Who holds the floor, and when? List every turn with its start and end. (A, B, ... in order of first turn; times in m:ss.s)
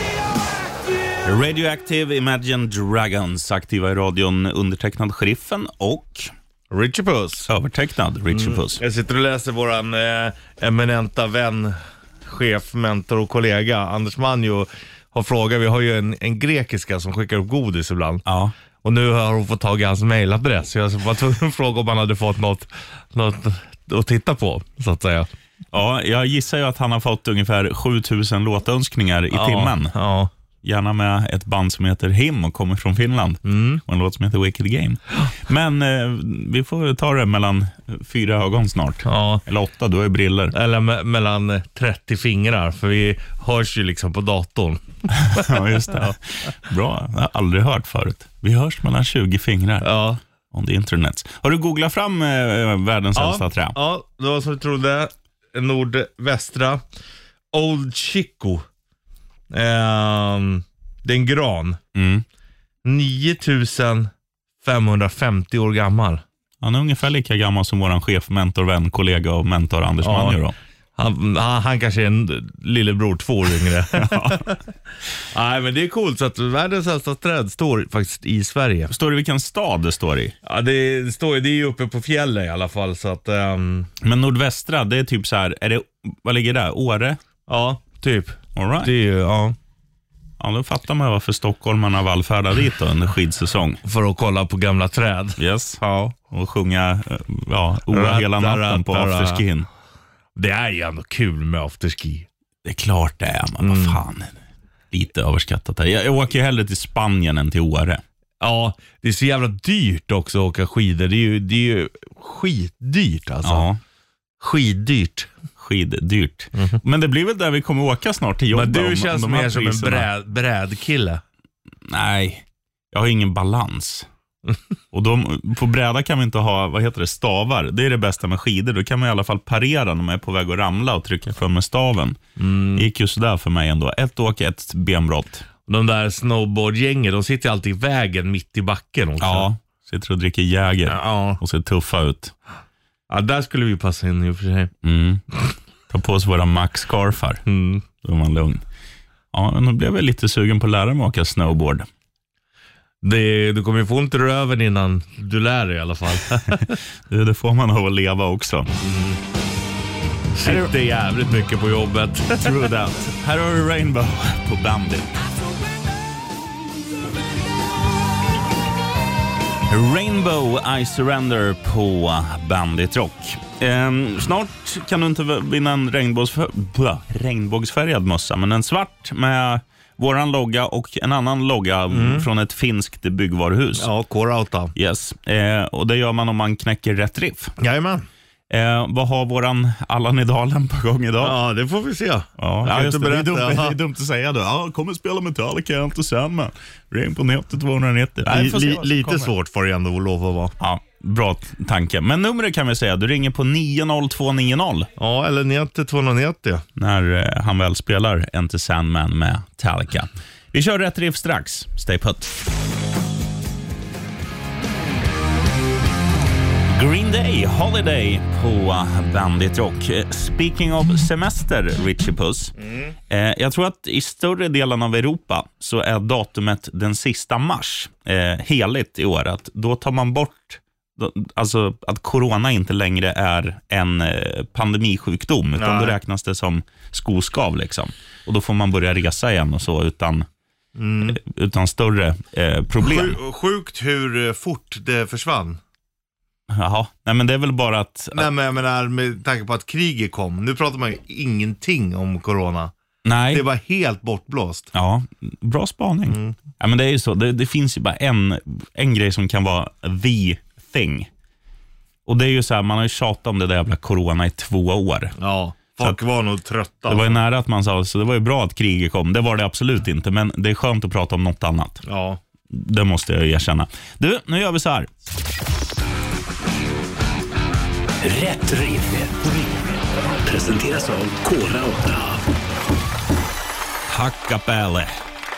0:01.2-0:06.3 A
0:06.7-0:07.5 B
0:07.4-0:08.8 A
0:08.3-0:18.2 B
0:18.2-0:18.5 A
0:18.8-0:25.3 B
0:25.7-0:29.9 A
0:29.3-0:30.3 B
0:30.6-0:40.5 A
0:33.4-0:33.8 B
0:39.0-0:39.4 B
0:40.5-0:46.1 B
0:45.1-0:49.9 A
0:49.8-0:50.2 B
0:50.5-0:53.8 A
0:53.1-0:56.8 B
0:57.5-0:58.6 B
0:59.5-1:01.8 B
1:01.9-1:02.2 A
1:02.8-1:04.1 B
1:04.6-1:06.2 B
1:06.6-1:10.5 A
1:10.0-1:10.4 B
1:11.0-1:14.6 B
1:13.9-1:14.5 A
1:15.3-1:18.9 B
1:18.9-1:20.3 A
1:20.4-1:23.9 B
1:24.0-1:27.2 A
1:27.5-1:29.6 B
1:28.6-1:28.9 A
1:30.4-1:33.8 A
1:33.8-1:36.1 B
1:35.4-1:39.7 A
1:37.9-1:39.4 B
1:40.4-1:42.3 B
1:42.6-1:44.3 A
1:43.6-1:44.0 B
1:44.9-1:48.0 A
1:48.4-1:53.7 B
1:53.4-1:53.8 A
1:54.4-1:55.3 B
1:55.6-2:00.1 A
1:58.5-2:01.2 B
2:01.9-2:04.1 A
2:04.9-2:12.2 A
2:12.4-2:12.9 B
2:12.7-2:15.4 A
2:15.7-2:19.5 B
2:19.2-2:22.3 A
2:20.9-2:21.4 B
2:23.1-2:24.7 B
2:24.8-2:25.2 A
2:25.9-2:27.4 A
2:27.4-2:27.8 B
2:28.0-2:28.6 A
2:29.3-2:31.9 A
2:33.0-2:36.8 B
2:36.4-2:38.7 A
2:38.8-2:39.2 B
2:40.3-2:42.7 B
2:40.4-2:40.7 A
2:42.4-2:45.2 A
2:49.7-3:03.9 A
3:01.9-3:02.3 B
3:03.8-3:04.7 B
3:04.7-3:07.5 A
3:07.6-3:08.0 B
3:08.5-3:11.4 A
3:11.2-3:13.8 B
3:12.4-3:19.3 A
3:18.3-3:20.5 B
3:20.6-3:24.9 A
3:25.0-3:26.6 B
3:26.8-3:32.4 A
3:36.7-3:42.5 A
3:43.1-4:00.2 A
3:55.6-3:56.0 B
4:00.8-4:01.2 B
4:01.0-4:03.2 A
4:02.8-4:05.6 B
4:06.5-4:08.3 A
4:08.1-4:12.7 B
4:13.0-4:13.4 A
4:13.3-4:14.7 B
4:14.7-4:21.1 A
4:16.1-4:16.4 B
4:22.0-4:25.1 A
4:25.2-4:27.2 B
4:26.9-4:31.8 A
4:31.8-4:32.2 B
4:32.5-4:34.9 A
4:38.0-4:39.7 C
4:40.2-4:42.2 C
4:43.9-4:44.9 A